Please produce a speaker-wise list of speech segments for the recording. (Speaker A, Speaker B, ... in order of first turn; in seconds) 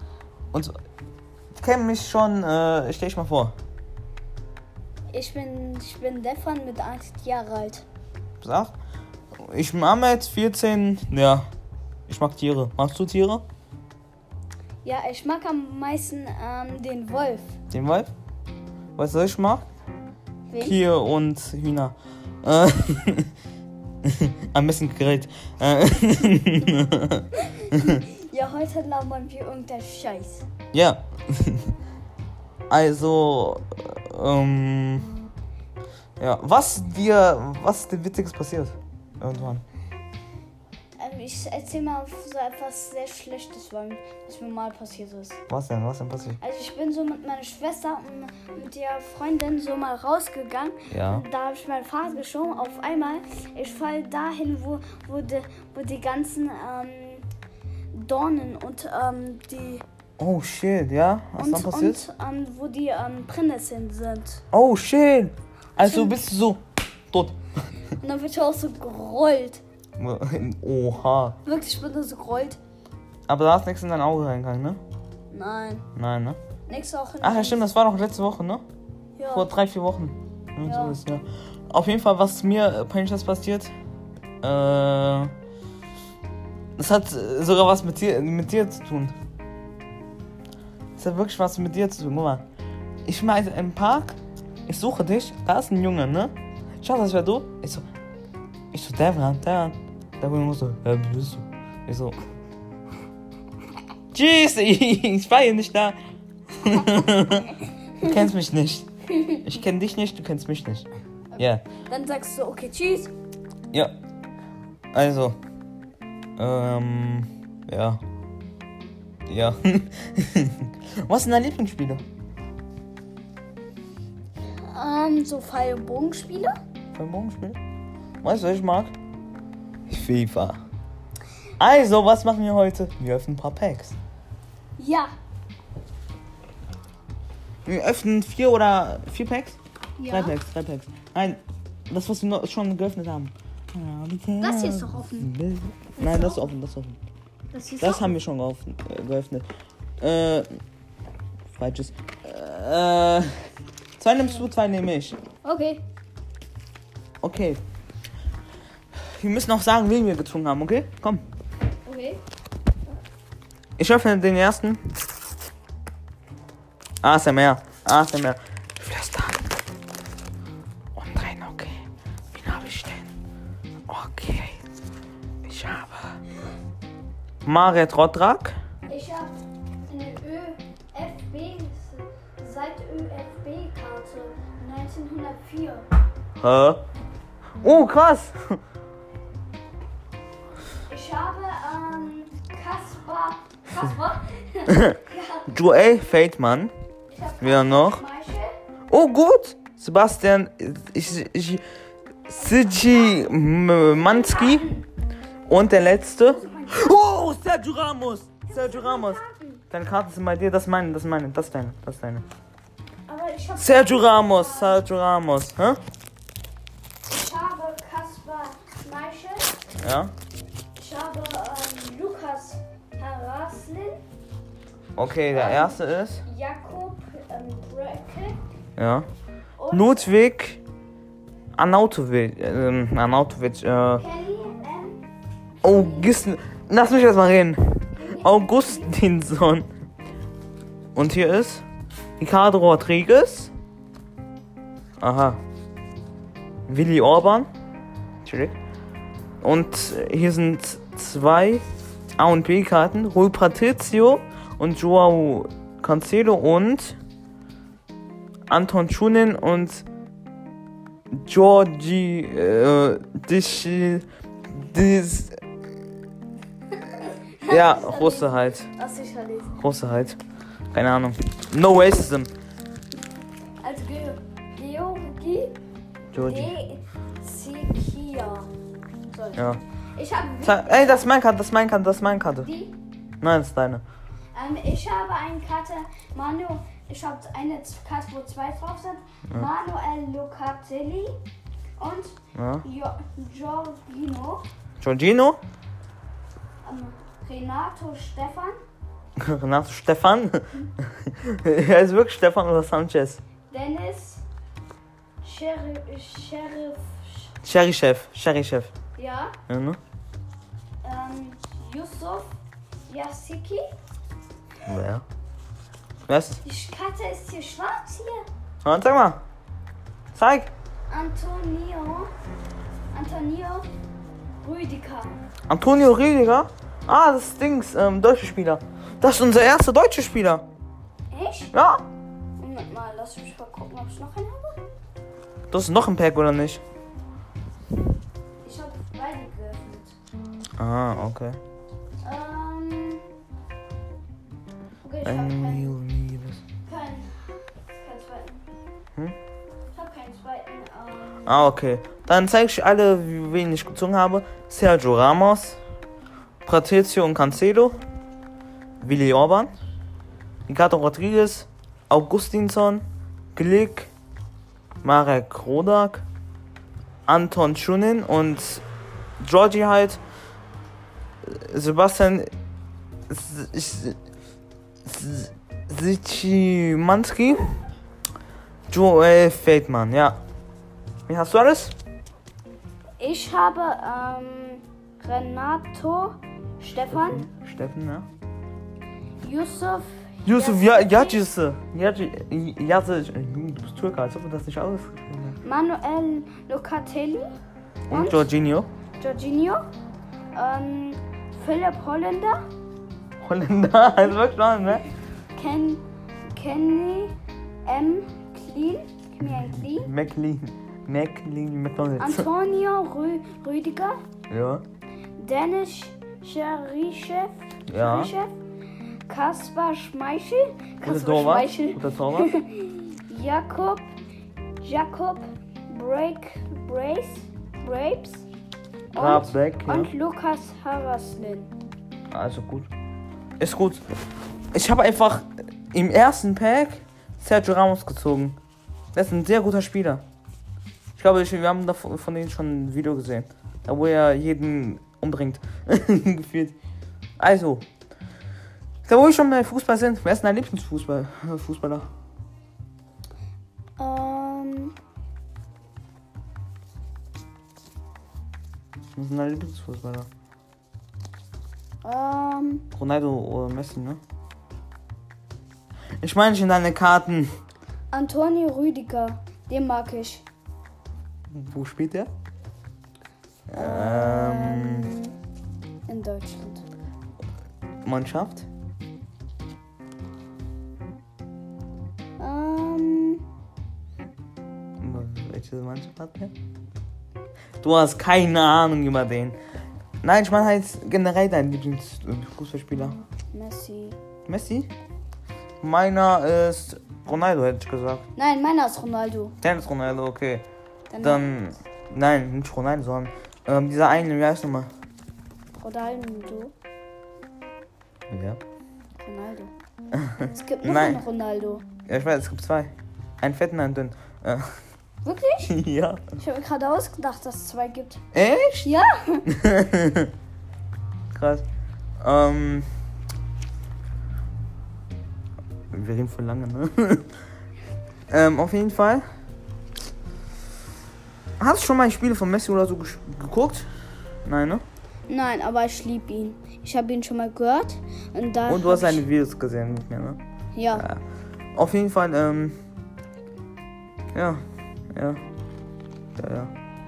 Speaker A: 1.6-3.5, 8.4-8.7, 9.4-11.5, 12.1-13.4, 17.7-18.1, 19.0-19.7, 20.6-23.3, 24.0-28.0, 30.7-31.7, 32.7-35.1, 36.2-39.6, 45.5-46.4, 50.9-51.2, 60.2-62.1, 64.5-67.4, 70.0-71.4, 73.3-74.8, 76.0-76.4, 77.2-78.6, 79.3-83.7, 84.4-85.3, 86.8-89.1, 91.0-92.4, 93.1-97.9, 98.7-102.2, 104.1-106.0, 106.5-110.9, 111.4-111.6, 114.9-115.4, 116.4-118.0, 119.3-122.0, 127.0-127.6, 128.2-128.9, 129.9-130.6, 131.6-133.9, 137.7-147.0, 147.8-149.5, 150.0-150.5, 151.6-153.3, 154.0-155.2, 157.2-157.6, 159.0-161.2, 163.8-164.9, 167.0-169.4, 171.0-171.8, 172.3-173.1, 173.9-174.6, 175.4-176.2, 177.4-178.6, 186.4-186.8, 187.6-188.6, 194.7-196.7, 197.4-198.0, 198.9-201.6, 202.3-204.7, 205.5-209.2, 209.7-212.2, 213.6-215.8, 219.8-220.1, 225.0-226.2, 228.8-229.1, 229.7-230.6, 231.6-234.0, 235.6-239.7, 240.9-241.7, 242.2-243.5, 245.0-245.4, 246.7-247.5, 248.2-248.6, 249.4-251.6, 252.2-257.0, 258.5-259.9, 261.1-265.4, 267.5-268.7, 269.6-270.2, 270.7-272.3, 276.1-276.5, 279.4-279.6, 280.4-282.5, 283.2-283.8, 292.4-292.6, 294.8-295.4, 299.2-303.2, 307.4-308.7, 309.5-309.8, 314.6-315.0, 316.1-316.4, 318.6-319.2, 320.1-320.5, 325.5-330.5, 331.5-331.8, 335.5-336.6, 340.6-341.4, 345.1-346.4, 351.3-355.6, 356.4-357.8, 358.8-359.5, 360.5-363.9, 364.8-366.1, 367.1-368.6, 369.2-370.0, 371.2-372.3, 373.1-374.0, 374.9-377.5, 378.7-380.2, 381.1-381.7, 386.9-388.1, 390.2-395.4, 397.9-398.7, 403.2-404.8, 409.3-412.3, 414.3-414.6, 417.7-418.1, 420.8-422.3, 428.9-429.9, 432.1-432.7, 433.4-433.8, 434.5-438.4, 438.9-440.0, 441.0-446.6, 447.2-447.6, 448.9-451.9, 459.0-460.1, 462.7-464.0, 466.0-467.4, 471.3-472.1, 473.5-474.9, 477.8-478.5, 484.8-486.3, 487.6-489.4, 490.0-493.0, 494.3-494.7, 495.6-498.0, 499.4-500.4, 501.0-504.7, 508.1-508.4, 509.9-511.0, 511.9-514.5, 515.5-516.0, 518.1-518.7, 519.3-520.1, 521.1-521.5, 522.0-522.7, 525.7-527.1, 528.1-529.1, 531.4-533.7, 534.3-534.6, 538.5-540.2, 540.7-541.0, 541.5-542.6, 544.1-544.4, 544.9-545.2, 546.2-546.5
Speaker B: 5.1-7.8, 14.8-17.6, 20.5-20.8, 27.4-30.4, 41.0-45.4, 46.4-57.3, 57.9-59.8, 61.4-64.4, 65.8-66.2, 68.0-69.6, 71.5-72.6, 75.3-75.9, 76.7-77.6, 79.2-79.5, 80.6-81.0, 109.1-109.4, 111.4-113.1, 124.6-126.5, 134.8-135.1, 140.0-140.4, 144.4-145.3, 146.0-146.4, 147.5-148.1, 155.4-155.8, 161.8-162.2, 178.9-179.4, 179.9-185.8, 190.9-195.5, 197.1-198.5, 202.4-204.8, 206.3-207.0, 208.5-209.6, 213.1-214.8, 217.1-219.6, 220.8-224.0, 225.3-228.4, 229.6-230.1, 233.9-235.0, 235.7-236.1, 237.9-238.9, 267.0-269.5, 273.6-275.6, 276.1-278.5, 279.1-281.1, 282.4-282.7, 284.3-291.2, 291.8-294.5, 296.6-298.6, 303.5-304.2, 305.2-307.3, 308.9-309.4, 310.8-312.3, 312.9-313.7, 316.4-318.3, 320.9-322.1, 322.9-323.7, 324.4-325.2, 331.1-331.5, 332.4-334.6, 338.4-339.9, 342.0-343.0, 344.8-345.8, 346.6-348.4, 349.7-351.5, 383.0-387.2, 389.2-391.2, 395.4-397.3, 397.9-398.3, 399.0-399.7, 400.3-402.4, 405.4-407.1, 407.6-409.9, 412.0-414.0, 415.2-418.4, 419.1-423.9, 424.6-428.3, 428.9-431.5, 453.8-454.7, 461.8-462.6, 467.9-470.2, 473.5-475.1, 475.9-476.6, 482.2-483.2, 493.3-494.0, 498.1-499.4, 500.9-501.3, 505.6-506.5, 509.0-509.5, 510.2-511.6, 515.0-515.5, 516.2-518.0, 518.6-519.2, 535.1-539.0, 540.5-540.9